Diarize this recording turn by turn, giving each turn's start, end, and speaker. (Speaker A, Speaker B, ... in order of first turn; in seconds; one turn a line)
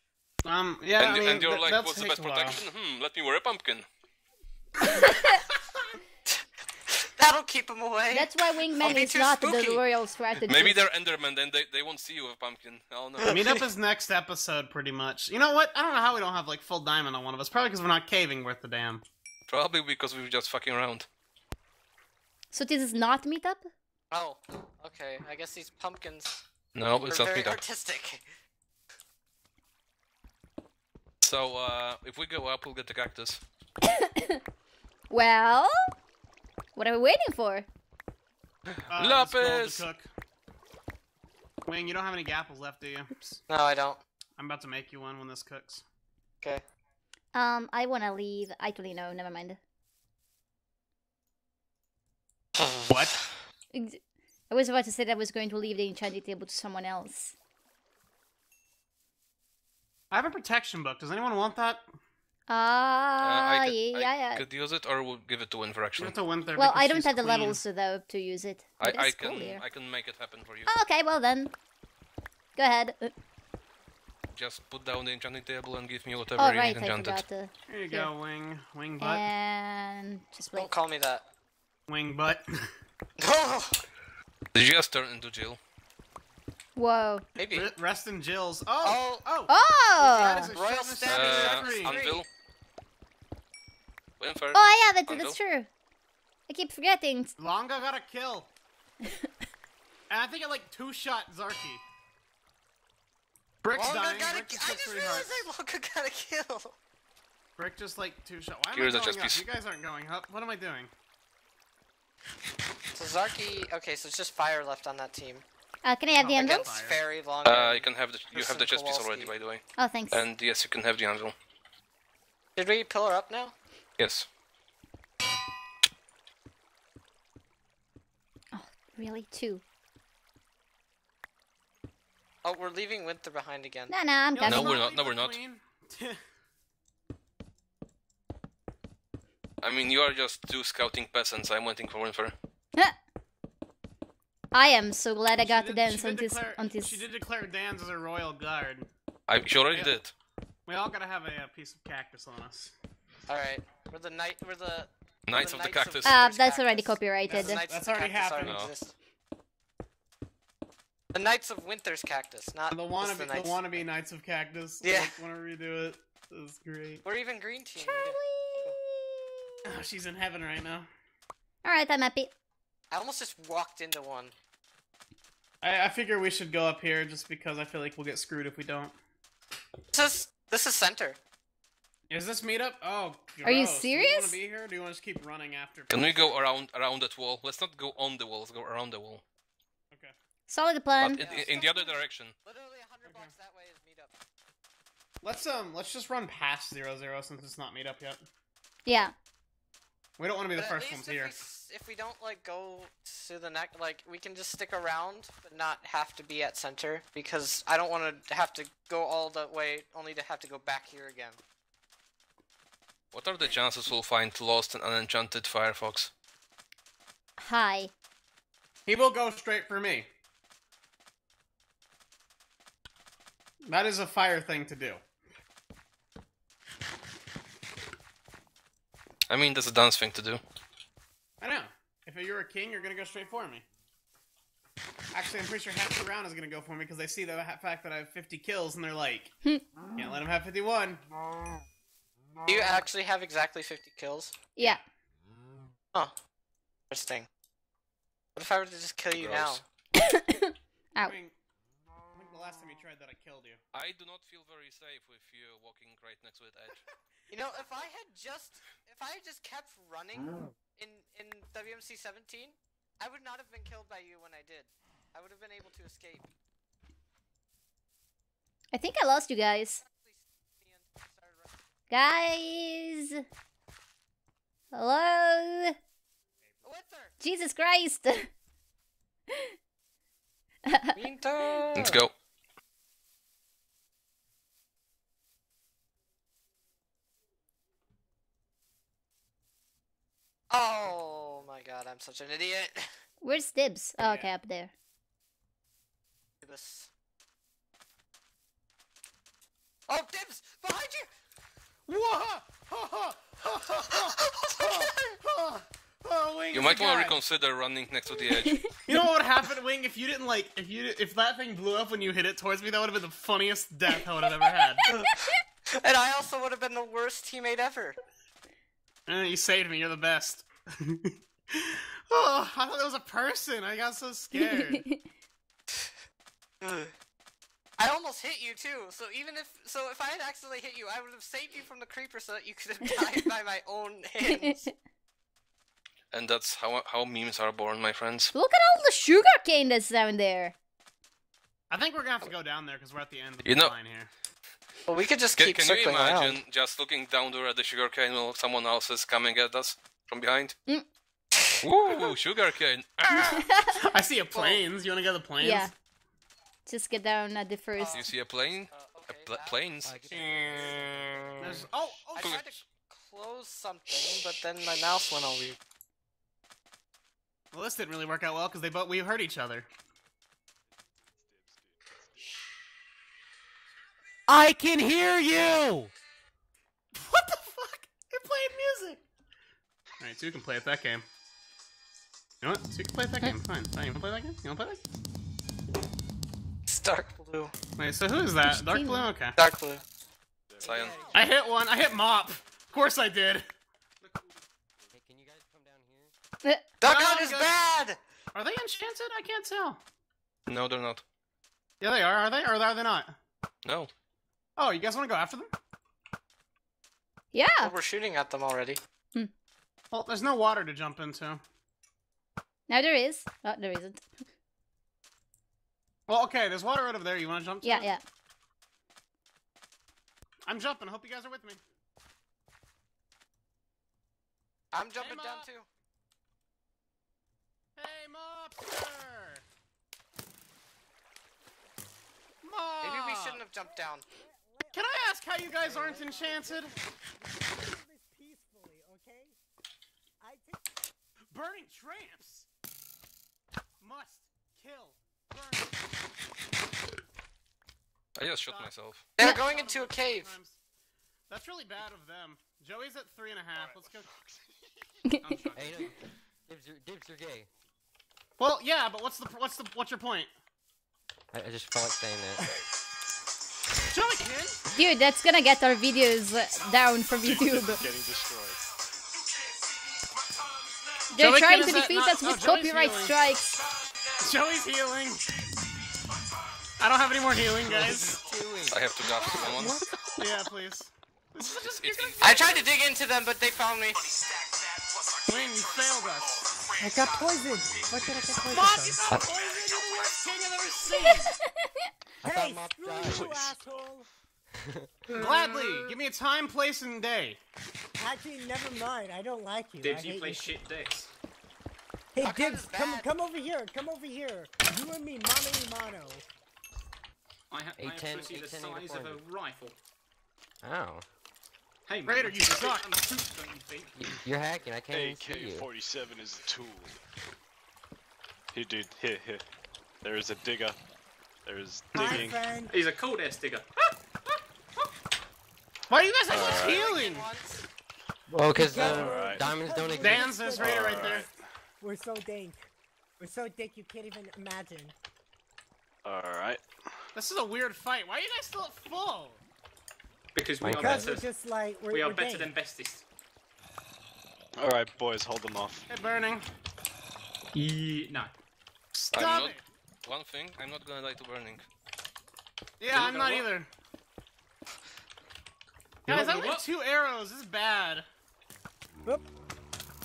Speaker A: 0.4-2.6
Speaker B: 1.0-3.9
Speaker C: 6.3-9.8
Speaker D: 8.1-10.8
Speaker B: 10.5-13.4
Speaker C: 13.2-13.7
Speaker A: 13.3-19.0
Speaker B: 19.5-21.1
Speaker D: 22.5-23.7
Speaker C: 24.1-26.4
Speaker B: 26.7-27.6
Speaker C: 27.1-28.2
Speaker B: 31.2-33.4
Speaker D: 33.9-34.4
Speaker D: 35.1-35.7
Speaker D: 36.7-37.7
Speaker B: 38.8-39.9
Speaker A: 38.9-40.1
Speaker A: 41.6-43.4
Speaker C: 43.5-44.0
Speaker A: 44.4-45.8
Speaker D: 47.3-49.6
Speaker C: 52.6-53.2
Speaker D: 53.7-57.3
Speaker A: 60.1-61.9
Speaker D: 62.5-64.4
Speaker B: 63.2-66.2
Speaker A: 66.0-67.6
Speaker D: 66.5-69.6
Speaker B: 68.8-70.7
Speaker D: 70.7-71.5
Speaker D: 72.5-73.1
Speaker B: 74.3-77.2
Speaker D: 76.4-78.1
Speaker A: 77.7-79.2
Speaker D: 79.0-80.7
Speaker C: 80.5-81.2
Speaker A: 81.9-82.7
Speaker C: 83.2-83.8
Speaker B: 84.5-85.6
Speaker D: 86.7-87.2
Speaker C: 87.3-87.7
Speaker A: 87.5-92.0
Speaker C: 88.8-89.3
Speaker D: 89.5-90.5
Speaker C: 90.1-92.2
Speaker B: 91.0-92.3
Speaker B: 94.2-95.4
Speaker D: 94.5-95.7
Speaker D: 96.5-97.3
Speaker A: 97.4-98.5
Speaker A: 100.1-101.8
Speaker A: 103.6-105.5
Speaker C: 103.7-106.8
Speaker A: 107.6-110.9
Speaker B: 108.7-109.5
Speaker C: 112.9-115.4
Speaker D: 115.8-116.6
Speaker A: 116.2-117.0
Speaker C: 116.4-119.3
Speaker B: 117.4-121.3
Speaker D: 119.8-120.2
Speaker C: 122.5-123.5
Speaker B: 124.0-124.3
Speaker D: 128.5-129.6
Speaker C: 132.4-133.9
Speaker D: 133.9-134.8
Speaker A: 134.3-136.2
Speaker B: 134.4-135.4
Speaker B: 139.6-142.3
Speaker D: 144.5-147.0
Speaker A: 145.4-148.9
Speaker B: 149.3-150.1
Speaker A: 150.7-152.7
Speaker C: 153.3-158.9
Speaker B: 155.3-156.2
Speaker D: 156.0-157.6
Speaker A: 157.3-158.6
Speaker B: 158.4-158.7
Speaker C: 161.1-163.8
Speaker A: 162.7-167.0
Speaker C: 164.8-165.2
Speaker C: 167.0-168.8
Speaker D: 167.8-169.5
Speaker A: 169.6-170.9
Speaker D: 171.6-172.3
Speaker C: 172.9-174.3
Speaker A: 175.6-178.9
Speaker C: 179.9-181.2
Speaker A: 182.1-186.4
Speaker D: 183.4-184.4
Speaker B: 185.9-189.2
Speaker D: 190.5-191.2
Speaker B: 191.0-192.3
Speaker C: 191.1-194.2
Speaker A: 193.0-193.3
Speaker A: 195.2-198.2
Speaker D: 198.8-199.1
Speaker A: 200.2-201.3
Speaker C: 200.5-211.4
Speaker B: 213.1-216.1
Speaker D: 217.4-217.9
Speaker A: 218.9-220.1
Speaker A: 223.7-225.0
Speaker B: 229.3-230.4
Speaker A: 231.4-233.6
Speaker A: 235.1-239.3
Speaker A: 239.9-241.0
Speaker C: 242.4-244.5
Speaker C: 246.9-247.3
Speaker C: 248.3-249.6
Speaker B: 249.1-249.6
Speaker D: 250.0-251.1
Speaker A: 251.0-251.3
Speaker A: 252.2-253.6
Speaker B: 253.7-256.8
Speaker C: 257.3-266.3
Speaker D: 268.7-269.8
Speaker C: 269.8-271.6
Speaker D: 271.9-273.2
Speaker D: 274.7-275.7
Speaker C: 276.6-277.1
Speaker D: 277.2-278.3
Speaker C: 280.9-282.0
Speaker B: 281.8-282.1
Speaker C: 290.5-292.9
Speaker D: 293.2-294.7
Speaker A: 294.0-294.3
Speaker C: 296.4-296.9
Speaker C: 299.9-301.1
Speaker A: 301.9-307.1
Speaker C: 303.7-305.1
Speaker C: 306.2-307.1
Speaker B: 306.5-308.7
Speaker D: 308.3-308.6
Speaker A: 308.9-314.8
Speaker D: 314.4-314.8
Speaker C: 314.9-315.2
Speaker C: 315.7-318.0
Speaker A: 319.1-324.8
Speaker D: 324.3-325.0
Speaker C: 326.6-326.9
Speaker C: 327.8-334.7
Speaker B: 336.1-338.3
Speaker D: 338.3-340.5
Speaker A: 341.7-344.1
Speaker B: 343.4-343.7
Speaker C: 344.9-346.4
Speaker B: 345.4-350.6
Speaker C: 351.3-352.1
Speaker B: 351.6-353.5
Speaker D: 353.1-353.7
Speaker A: 353.7-355.7
Speaker C: 354.3-354.6
Speaker D: 355.4-355.7
Speaker D: 356.6-358.1
Speaker C: 357.8-358.1
Speaker B: 357.9-360.3
Speaker C: 358.7-359.7
Speaker E: 359.8-361.6
Speaker A: 360.1-360.8
Speaker A: 361.4-362.6
Speaker C: 362.1-365.6
Speaker A: 367.5-369.7
Speaker F: 371.2-371.9
Speaker A: 376.9-379.0
Speaker A: 380.0-381.0
Speaker A: 382.4-384.8
Speaker C: 386.7-387.5
Speaker A: 387.8-389.3
Speaker D: 388.5-389.0
Speaker C: 389.4-389.8
Speaker F: 390.5-391.1
Speaker B: 390.6-391.1
Speaker A: 391.1-393.5
Speaker G: 394.0-394.4
Speaker E: 394.9-396.1
Speaker C: 396.8-398.0
Speaker A: 396.8-397.5
Speaker A: 398.3-399.8
Speaker B: 400.5-401.0
Speaker A: 401.8-403.1
Speaker B: 403.6-403.9
Speaker A: 404.6-405.5
Speaker D: 407.3-407.7
Speaker C: 407.6-408.8
Speaker A: 409.9-411.4
Speaker D: 412.7-414.0
Speaker A: 416.1-417.9
Speaker D: 417.6-418.0
Speaker A: 420.4-421.6
Speaker C: 424.7-425.7
Speaker A: 424.9-425.5
Speaker A: 427.8-429.4
Speaker A: 432.4-433.4
Speaker C: 432.8-434.1
Speaker H: 433.5-439.3
Speaker A: 434.7-436.7
Speaker H: 440.2-440.6
Speaker A: 441.3-442.4
Speaker A: 443.8-445.8
Speaker B: 448.2-449.1
Speaker A: 448.4-448.7
Speaker C: 449.1-450.3
Speaker A: 449.3-450.6
Speaker A: 451.3-454.1
Speaker F: 453.5-454.4
Speaker G: 455.1-456.0
Speaker E: 455.5-455.9
Speaker E: 456.4-457.5
Speaker A: 458.4-460.3
Speaker E: 461.3-462.5
Speaker A: 463.9-464.6
Speaker D: 464.7-467.8
Speaker F: 467.2-468.6
Speaker D: 471.1-473.6
Speaker A: 471.2-473.1
Speaker A: 474.2-475.3
Speaker A: 476.8-478.2
Speaker E: 477.6-479.6
Speaker B: 478.7-479.8
Speaker A: 480.2-482.7
Speaker B: 481.4-482.6
Speaker C: 482.2-484.0
Speaker A: 485.2-486.3
Speaker H: 486.8-489.1
Speaker A: 488.4-491.4
Speaker E: 489.1-489.3
Speaker E: 492.2-493.2
Speaker H: 492.2-494.1
Speaker F: 493.0-493.8
Speaker A: 495.1-497.4
Speaker H: 498.0-500.6
Speaker G: 499.8-501.1
Speaker H: 502.1-506.2
Speaker C: 502.2-503.2
Speaker G: 507.5-509.8
Speaker E: 507.8-509.2
Speaker E: 510.6-511.0
Speaker G: 511.9-514.0
Speaker A: 512.1-512.9
Speaker E: 513.9-515.7
Speaker F: 514.9-517.0
Speaker F: 518.5-519.4
Speaker F: 520.0-520.8
Speaker F: 521.5-522.5
Speaker A: 521.9-522.3
Speaker H: 522.0-522.7
Speaker G: 522.6-523.7
Speaker A: 525.9-527.3
Speaker F: 526.3-526.9
Speaker C: 526.3-527.6
Speaker E: 528.3-530.0
Speaker H: 528.5-531.3
Speaker F: 529.0-529.6
Speaker A: 530.0-531.2
Speaker F: 530.6-531.3
Speaker H: 531.8-532.7
Speaker H: 533.2-534.9
Speaker F: 536.0-536.6
Speaker A: 537.1-539.4
Speaker G: 540.3-543.0
Speaker H: 540.7-542.5
Speaker F: 544.6-545.9
Speaker A: 545.9-546.5
Speaker G: 547.5-548.3
Speaker A: 548.9-549.6
Speaker B: 549.1-551.6
Speaker A: 552.8-553.7
Speaker B: 552.9-553.5
Speaker G: 556.1-556.7
Speaker A: 556.1-558.0